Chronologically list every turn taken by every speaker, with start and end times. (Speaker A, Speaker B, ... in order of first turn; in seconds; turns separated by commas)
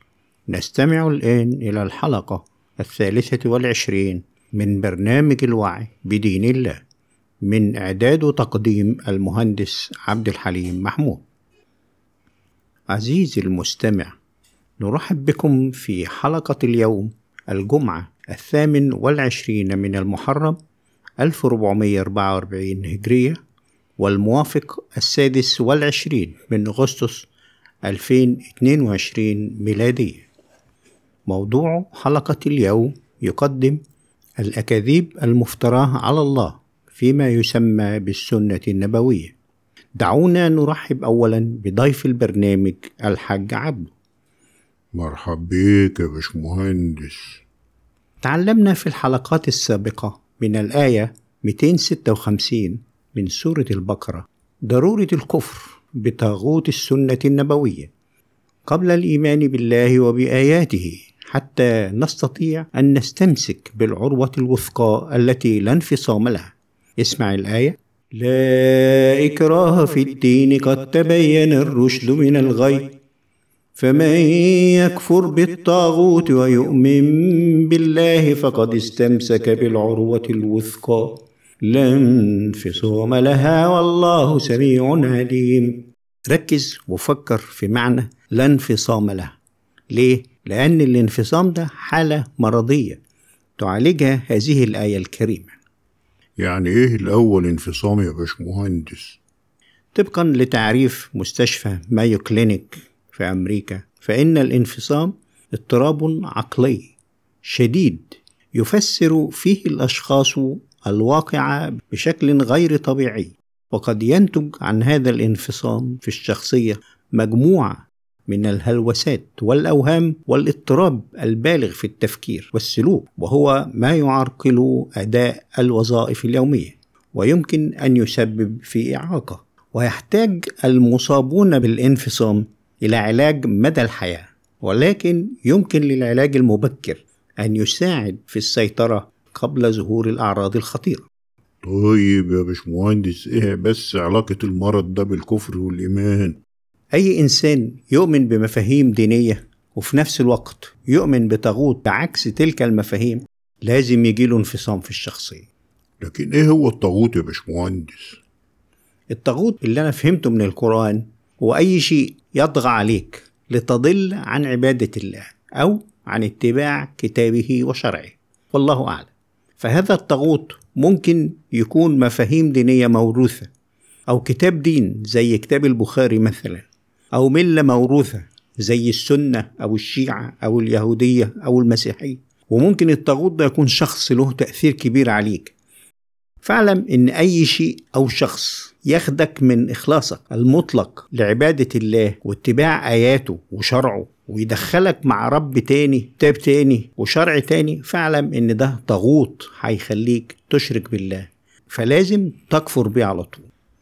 Speaker A: 0.5-6.8, Speaker A: 7.4-11.2, Speaker A: 12.9-14.1, Speaker A: 14.8-20.6, Speaker A: 21.2-23.4, Speaker A: 24.0-27.3, Speaker A: 27.9-30.3, Speaker A: 31.3-33.8, Speaker A: 34.4-39.3, Speaker A: 40.0-43.9, Speaker B: 44.9-47.4, Speaker A: 48.2-57.9, Speaker A: 58.7-73.0, Speaker A: 73.8-89.3, Speaker A: 89.9-93.0, Speaker A: 93.6-95.5, Speaker B: 96.4-99.2, Speaker A: 99.9-106.9, Speaker A: 107.5-141.1, Speaker B: 141.6-146.4, Speaker A: 146.9-155.5, Speaker B: 156.0-158.2, Speaker A: 159.1-173.5, Speaker A: 174.1-185.5, Speaker A: 186.4-203.5